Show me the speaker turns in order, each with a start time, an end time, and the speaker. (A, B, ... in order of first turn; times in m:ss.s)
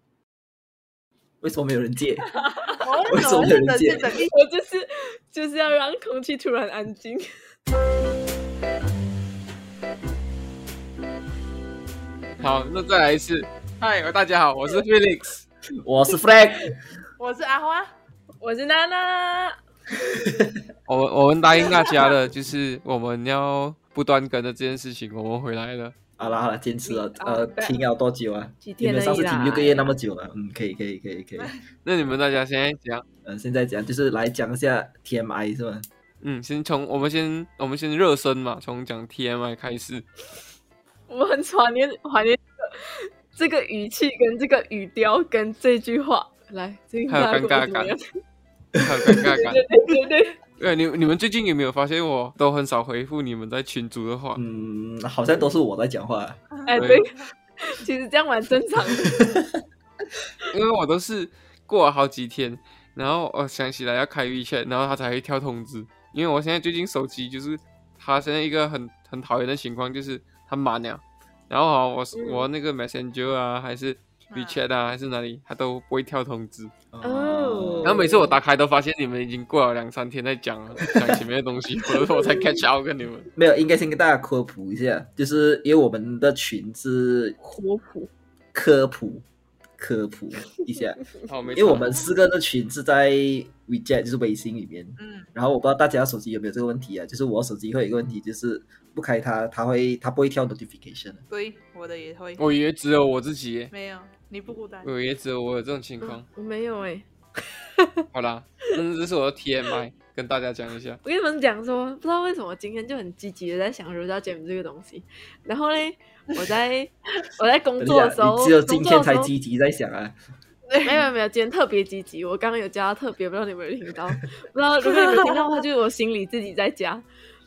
0:01.4-0:02.2 A
0:02.4-0:02.8 B
0:02.8-0:04.3 C
0:03.1-0:04.1 A
0:04.3-0:07.3 B
0:12.4-0:15.4 D
0:15.8-0:16.8 A
0:17.2-0:17.9 C
0:18.4-0:19.6 B
0:20.2-0:20.6 A
0:20.9-0:25.9 D
0:21.6-0:22.1 C
0:26.2-0:31.5 A
0:26.8-0:27.7 C
0:28.6-0:29.9 B
0:31.8-0:33.0 D
0:33.2-0:35.9 A
0:36.2-0:40.0 D
0:41.1-0:48.0 B
0:47.1-0:47.9 D
0:48.8-0:49.4 A
0:48.8-0:49.6 D
0:49.4-0:50.4 B
0:50.6-0:54.4 D
0:54.4-0:56.4 A
0:56.7-0:59.4 B
0:56.8-0:57.0 D
1:00.5-1:16.7 D
1:12.1-1:12.5 B
1:14.3-1:14.6 C
1:16.9-1:18.1 A
1:17.0-1:18.4 B
1:17.8-1:23.3 D
1:20.9-1:21.2 A
1:23.4-1:27.4 A
1:27.4-1:28.1 B
1:28.5-1:29.2 A
1:29.8-1:41.2 A
1:31.3-1:32.0 D
1:35.0-1:35.3 C
1:41.3-1:42.4 C
1:42.4-1:43.7 D
1:43.7-1:44.9 C
1:44.8-1:46.2 D
1:46.0-1:47.0 B
1:47.8-1:48.0 B
1:48.1-1:51.0 D
1:51.0-1:59.3 B
1:57.8-2:00.2 A
2:00.7-2:01.0 C
2:00.8-2:07.0 B
2:04.9-2:05.4 C